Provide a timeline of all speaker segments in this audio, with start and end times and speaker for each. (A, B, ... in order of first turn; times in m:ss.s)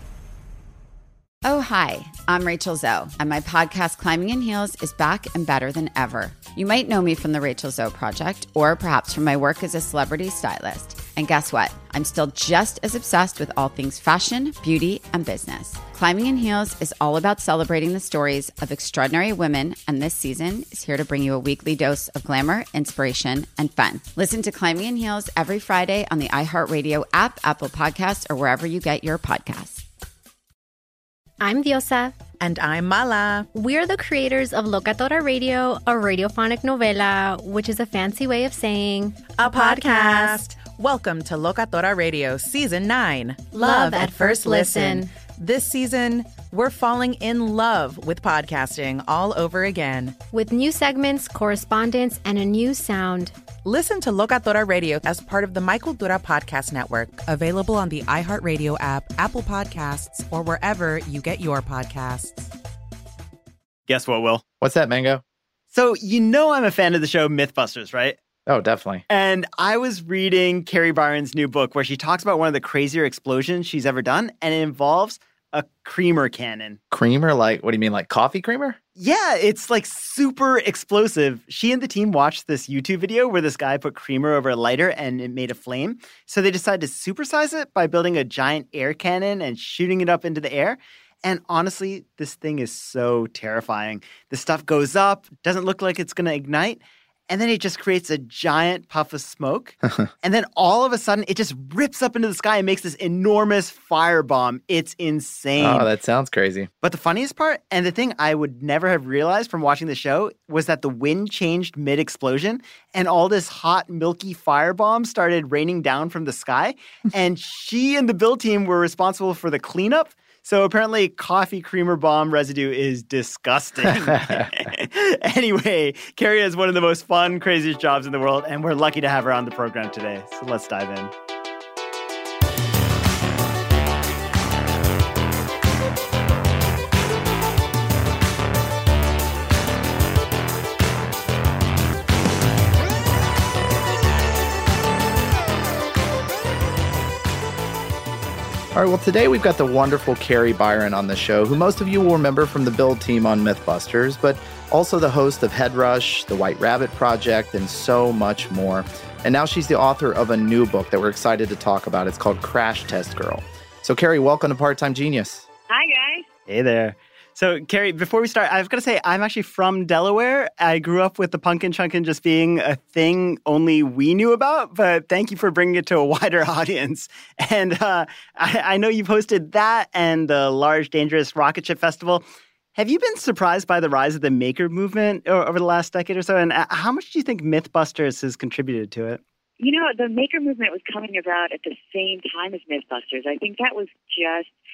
0:01.4-0:29.8 A
0:31.4-0:32.2 B
0:32.3-0:33.5 C
0:33.5-0:40.4 B
0:39.3-0:50.2 C
0:43.5-0:45.1 B
0:50.3-0:53.4 B
0:53.6-1:02.5 C
1:03.9-1:04.4 D
1:04.6-1:05.2 E
1:05.7-1:08.2 D
1:08.4-1:09.0 E
1:09.1-1:16.8 D
1:16.9-1:18.8 E
1:19.0-1:45.9 D
1:45.6-1:46.7 E
1:46.8-2:11.1 D
2:28.7-2:45.5 E
2:45.7-2:46.2 F
2:46.5-3:02.2 D
3:02.8-3:09.2 D
3:09.6-3:14.5 F